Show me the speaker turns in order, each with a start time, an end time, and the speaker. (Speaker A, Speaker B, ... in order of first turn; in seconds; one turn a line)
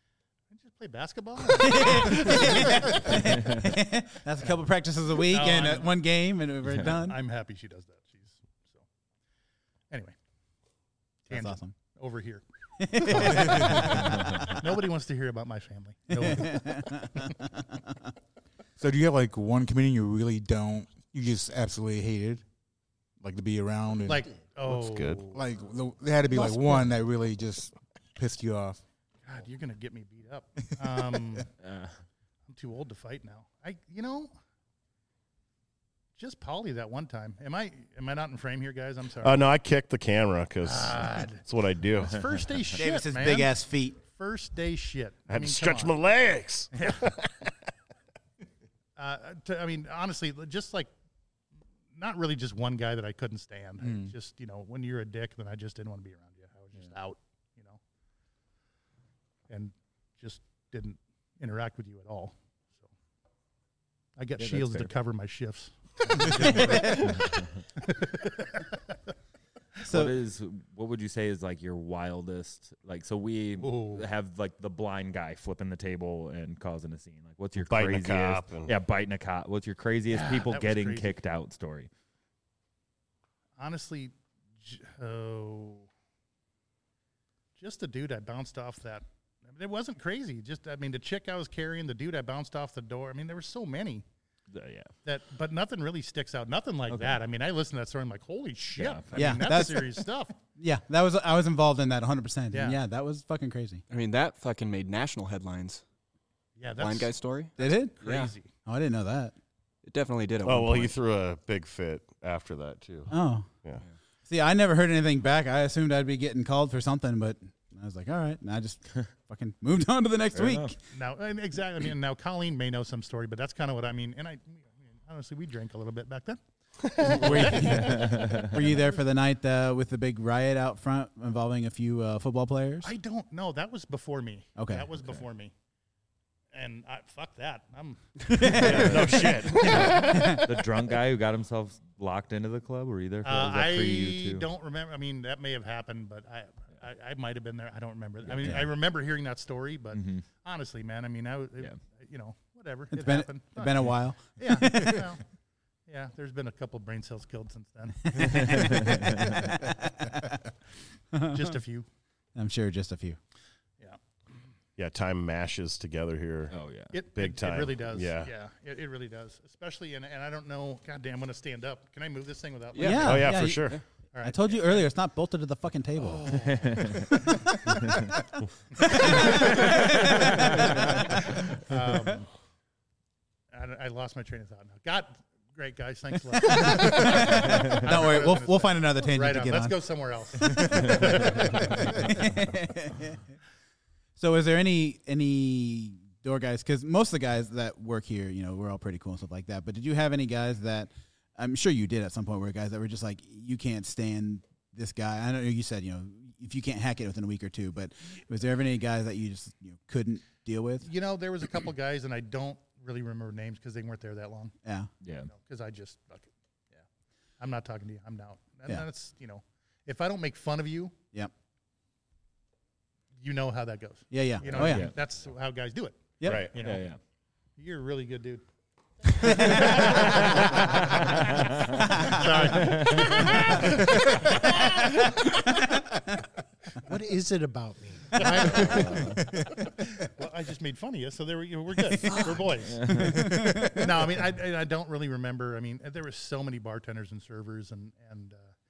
Speaker A: 0.5-3.2
Speaker B: 1.5-7.2
Speaker C: 3.1-3.6
Speaker A: 5.3-5.9
Speaker A: 6.8-8.8
Speaker A: 9.9-10.2
Speaker A: 11.3-17.3
Speaker B: 11.3-11.7
Speaker B: 12.8-14.5
Speaker B: 16.1-17.6
Speaker D: 18.8-22.4
Speaker D: 23.2-24.3
Speaker A: 24.1-25.4
Speaker E: 24.7-25.2
Speaker D: 25.3-28.8
Speaker A: 29.3-31.5
Speaker C: 31.6-31.9
Speaker A: 32.5-34.3
Speaker A: 36.2-39.4
Speaker E: 39.2-42.3
Speaker A: 40.6-41.5
Speaker A: 42.0-45.9
Speaker B: 42.8-44.0
Speaker E: 45.3-47.3
Speaker A: 46.7-47.1
Speaker A: 49.0-50.9
Speaker A: 51.9-57.8
Speaker A: 59.5-62.8
Speaker A: 64.2-67.2
Speaker C: 64.4-64.9
Speaker C: 66.5-67.5
Speaker B: 66.6-67.1
Speaker A: 67.9-68.5
Speaker B: 69.8-70.2
Speaker C: 69.8-81.9
Speaker A: 73.6-74.1
Speaker E: 77.6-78.7
Speaker A: 80.1-81.1
Speaker A: 83.6-85.9
Speaker A: 87.6-94.0
Speaker C: 94.5-94.9
Speaker A: 95.0-100.4
Speaker C: 98.8-99.3
Speaker B: 99.1-103.8
Speaker A: 102.5-102.8
Speaker F: 103.9-105.8
Speaker A: 106.6-108.5
Speaker F: 106.8-108.3
Speaker B: 107.6-107.9
Speaker B: 108.5-109.4
Speaker F: 109.8-110.9
Speaker E: 110.4-113.1
Speaker B: 113.1-113.5
Speaker B: 114.3-120.8
Speaker C: 120.3-120.7
Speaker A: 120.9-128.4
Speaker B: 127.0-132.9
Speaker C: 127.7-128.6
Speaker A: 132.8-135.5
Speaker B: 134.6-134.9
Speaker A: 136.5-139.9
Speaker B: 138.3-139.1
Speaker E: 138.5-140.0
Speaker B: 139.7-140.5
Speaker C: 139.7-144.5
Speaker A: 143.2-155.2
Speaker C: 148.3-148.6
Speaker C: 149.9-150.2
Speaker B: 152.9-155.1
Speaker A: 155.9-159.0
Speaker B: 158.2-160.4
Speaker C: 158.2-159.5
Speaker B: 161.1-161.6
Speaker A: 161.2-161.9
Speaker B: 162.3-163.2
Speaker E: 164.8-166.6
Speaker C: 166.5-166.9
Speaker A: 166.9-173.4
Speaker E: 167.1-168.3
Speaker F: 172.7-173.8
Speaker B: 172.8-176.6
Speaker E: 173.0-173.8
Speaker A: 174.1-174.6
Speaker C: 176.4-177.1
Speaker C: 177.8-178.1
Speaker B: 178.8-181.0
Speaker A: 179.0-179.8
Speaker A: 180.4-182.3
Speaker A: 183.5-192.2
Speaker B: 186.4-189.8
Speaker B: 190.3-193.2
Speaker B: 194.2-210.9
Speaker A: 210.8-214.6
Speaker B: 214.6-214.9
Speaker C: 215.0-215.3
Speaker A: 215.3-216.8
Speaker A: 217.4-220.9
Speaker A: 223.2-226.9
Speaker B: 224.1-224.9
Speaker C: 224.5-224.9
Speaker B: 226.2-226.5
Speaker E: 226.2-226.5
Speaker C: 226.6-227.0
Speaker A: 227.6-228.4
Speaker A: 229.2-234.8
Speaker B: 229.2-230.1
Speaker C: 231.4-231.7
Speaker C: 232.5-233.4
Speaker G: 236.8-239.2
Speaker A: 238.2-238.9
Speaker C: 238.6-239.2
Speaker A: 239.9-243.0
Speaker C: 242.7-243.3
Speaker B: 243.0-243.9
Speaker A: 243.7-248.5